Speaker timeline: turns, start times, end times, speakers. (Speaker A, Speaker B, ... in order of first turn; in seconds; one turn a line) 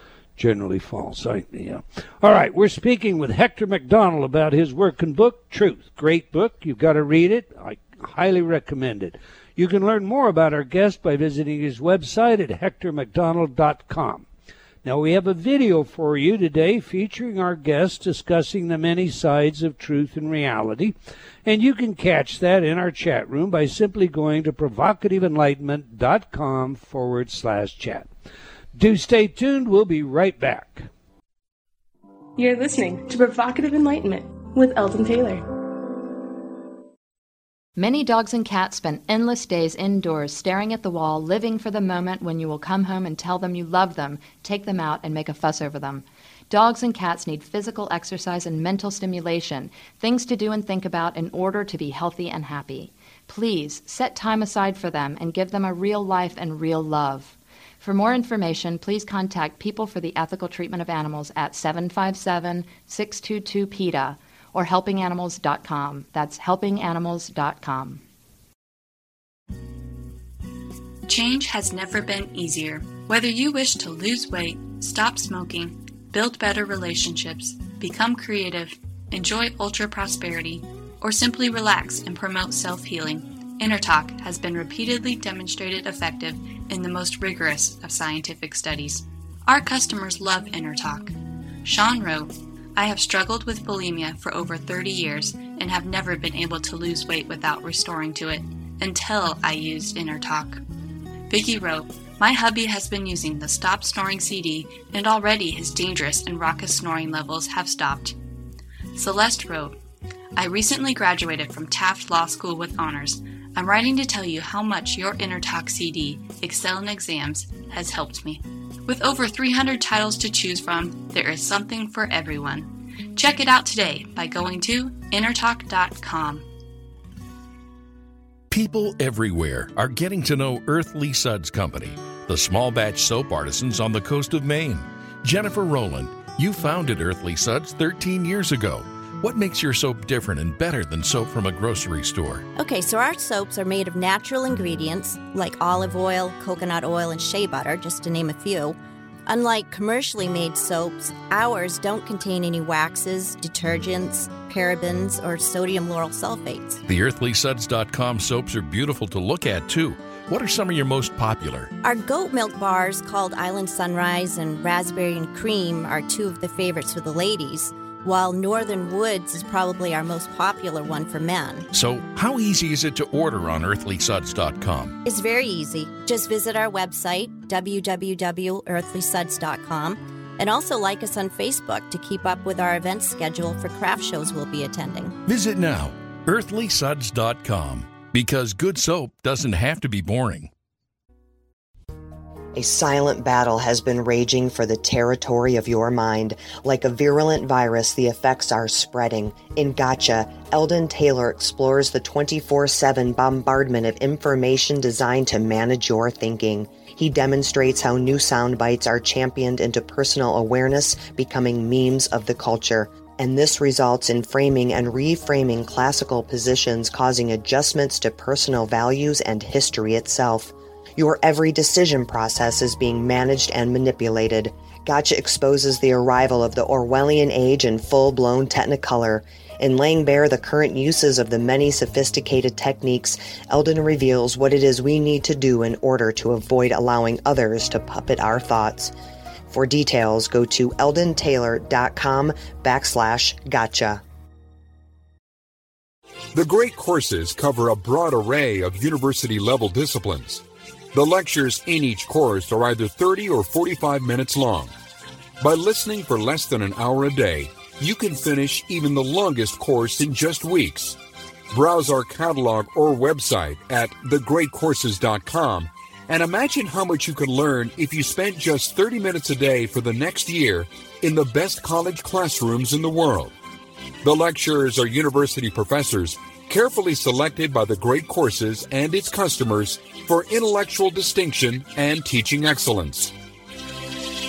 Speaker A: 0.4-14.3
Speaker A: 14.8-20.9
Speaker A: 21.4-28.1
Speaker A: 28.7-30.9
Speaker B: 32.4-35.4
Speaker C: 37.8-68.0
Speaker D: 71.1-100.6
Speaker D: 101.3-108.2
Speaker D: 109.0-109.8
Speaker D: 110.4-126.5
Speaker E: 128.5-142.4
Speaker F: 142.6-156.8
Speaker E: 156.9-161.7
Speaker F: 161.8-171.7
Speaker E: 171.7-175.0
Speaker F: 175.1-185.2
Speaker E: 185.3-190.5
Speaker G: 192.6-238.9
Speaker G: 239.5-244.0
Speaker H: 246.3-254.7
Speaker H: 255.4-261.0
Speaker H: 261.5-273.4
Speaker H: 274.0-283.1